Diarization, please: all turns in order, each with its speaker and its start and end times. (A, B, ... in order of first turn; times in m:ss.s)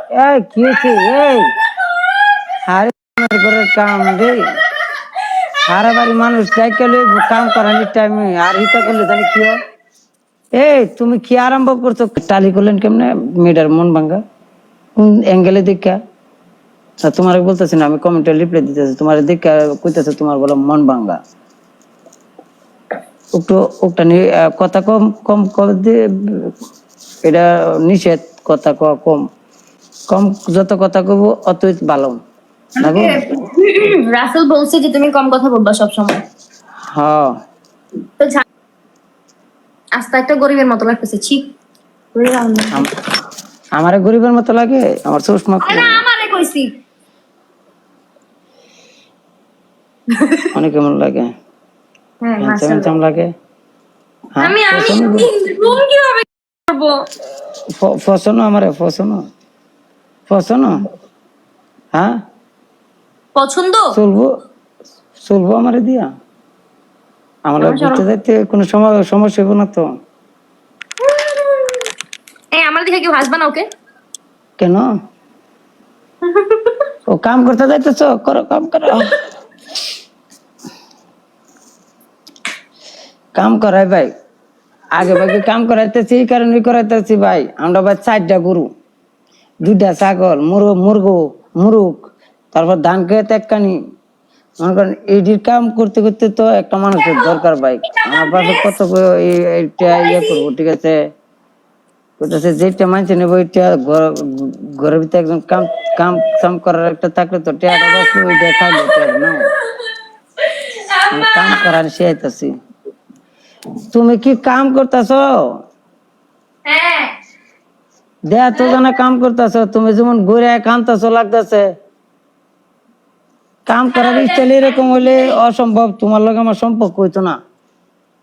0:00.2-0:01.5 A
0:02.7-0:04.4 A
0:05.7-0:09.6 A
0:10.6-0:14.2 A
0:15.0-0:16.0 A
0:17.0-0:21.2 A
0:23.4-0:26.5 A
0:27.2-0:29.2 A
0:30.1-0:32.2 A
0:32.8-0:36.2 B
0:32.8-0:33.2 A
0:36.9-0:37.3 A
0:40.0-0:41.4 B
0:42.2-0:42.8 B
0:43.8-0:46.0 A
0:45.6-0:46.7 B
0:50.1-0:50.5 B
0:50.5-0:51.3 A
0:52.2-0:53.0 B
0:52.4-0:53.3 A
0:54.4-0:55.3 A
0:54.4-0:57.1 B
0:57.8-0:59.2 A
1:00.3-1:00.8 A
1:03.4-1:04.0 B
1:03.9-1:04.3 A
1:05.2-1:06.1 A
1:07.5-1:09.9 A
1:07.6-1:08.0 B
1:11.0-1:11.9 B
1:12.6-1:13.7 B
1:14.6-1:14.9 A
1:16.2-1:16.8 B
1:17.1-1:19.2 A
1:23.4-1:24.1 A
1:24.9-1:28.7 A
1:25.1-1:25.4 B
1:29.6-1:33.8 A
1:34.6-1:41.0 A
1:37.0-1:37.4 B
1:37.9-1:38.7 B
1:39.8-1:40.5 B
1:42.2-1:49.5 A
1:47.8-1:51.6 B
1:51.1-1:52.5 A
1:53.9-1:55.2 A
1:56.7-1:57.1 B
1:58.3-2:01.7 A
2:03.7-2:07.4 A
2:03.9-2:05.4 B